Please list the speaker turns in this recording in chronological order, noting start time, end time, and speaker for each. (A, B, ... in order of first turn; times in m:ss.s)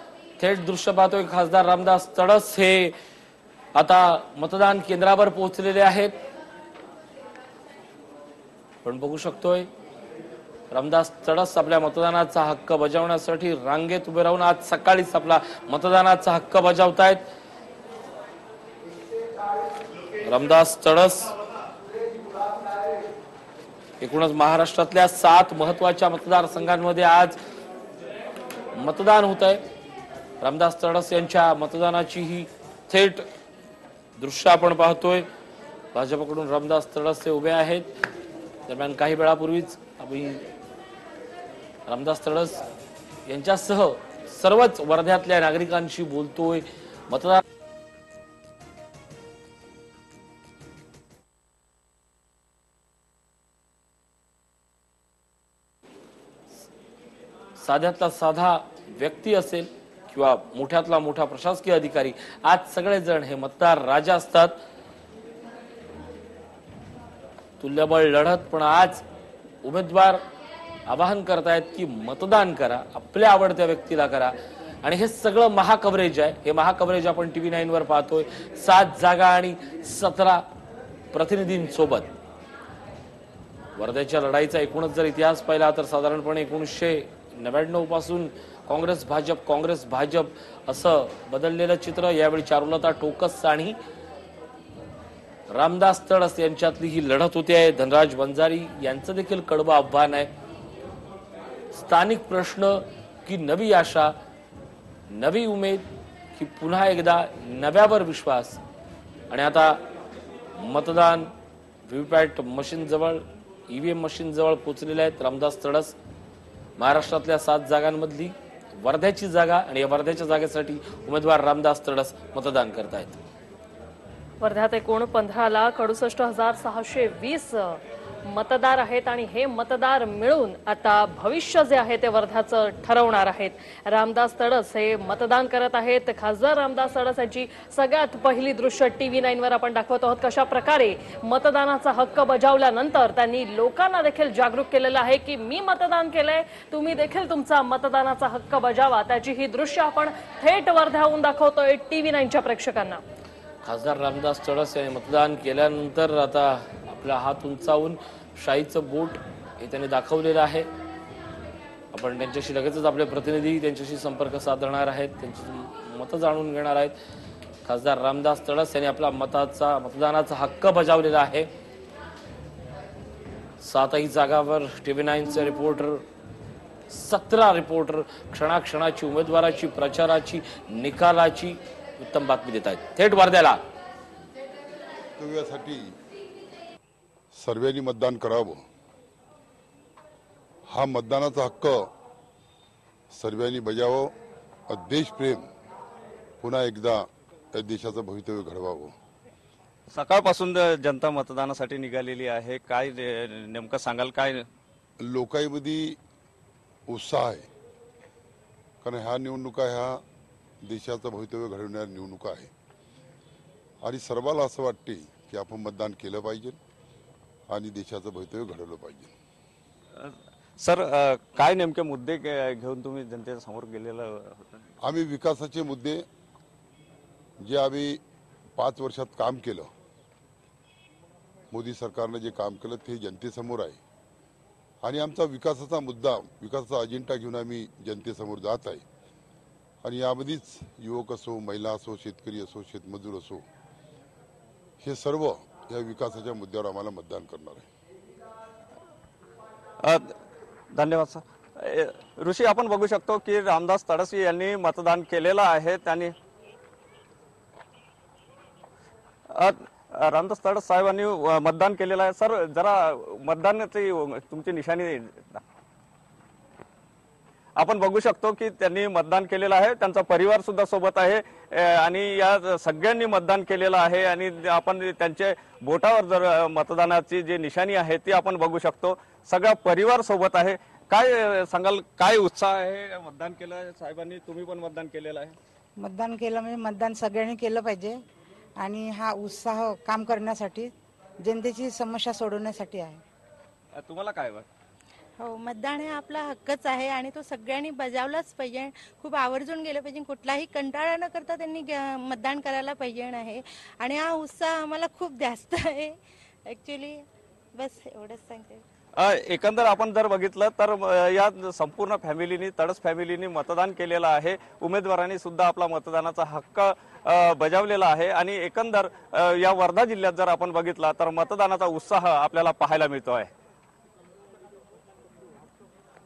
0:00.4-0:02.9 A
0:03.8-0:06.1 A
0:08.8-0:09.7 A
0:10.7-0:17.2 A
0:20.2-0:21.3 A
0:24.0-0:27.4 A
0:28.7-0:29.6 A
0:30.4-0:33.2 A
0:34.2-0:35.2 A
0:35.9-0:37.9 A
0:38.7-0:40.4 A
0:41.9-0:42.6 A
0:43.2-0:47.4 A
0:57.6-1:04.5 A
1:07.6-1:09.0 A
1:09.6-1:10.2 A
1:10.9-1:20.4 A
1:21.1-1:22.1 A
1:23.8-1:33.8 A
1:35.5-1:40.3 A
1:41.7-1:44.1 A
1:45.1-1:48.6 A
1:49.3-1:49.8 A
1:50.6-1:51.3 A
1:51.8-1:56.0 A
1:56.8-2:03.2 A
2:04.4-2:33.0 B
2:33.6-2:40.7 A
2:41.9-2:46.9 A
2:47.6-2:51.5 A
2:53.6-2:56.0 A
2:56.9-3:03.6 A
3:05.2-3:05.9 C
3:07.4-3:08.6 C
3:10.7-3:11.9 C
3:13.1-3:14.1 C
3:14.7-3:15.4 C
3:16.4-3:18.9 C
3:19.9-3:24.4 D
3:25.0-3:26.0 C
3:26.9-3:27.5 C
3:28.8-3:30.0 C
3:30.6-3:32.5 C
3:33.8-3:36.6 C
3:37.5-3:39.1 C
3:39.9-3:44.6 D
3:44.8-3:46.0 C
3:47.4-3:48.0 C
3:48.6-3:49.7 C
3:51.5-3:53.8 C
3:54.8-3:58.8 C
3:59.8-4:03.4 C
4:04.8-4:07.7 C
4:09.8-4:10.1 D
4:10.7-4:16.1 D
4:19.3-4:25.4 D
4:27.6-4:45.4 D
4:45.8-4:48.0 E
4:48.6-4:53.0 E
4:53.7-4:54.5 D
4:55.2-5:05.9 F
5:06.5-5:07.0 F
5:07.6-5:08.6 F
5:09.0-5:23.3 D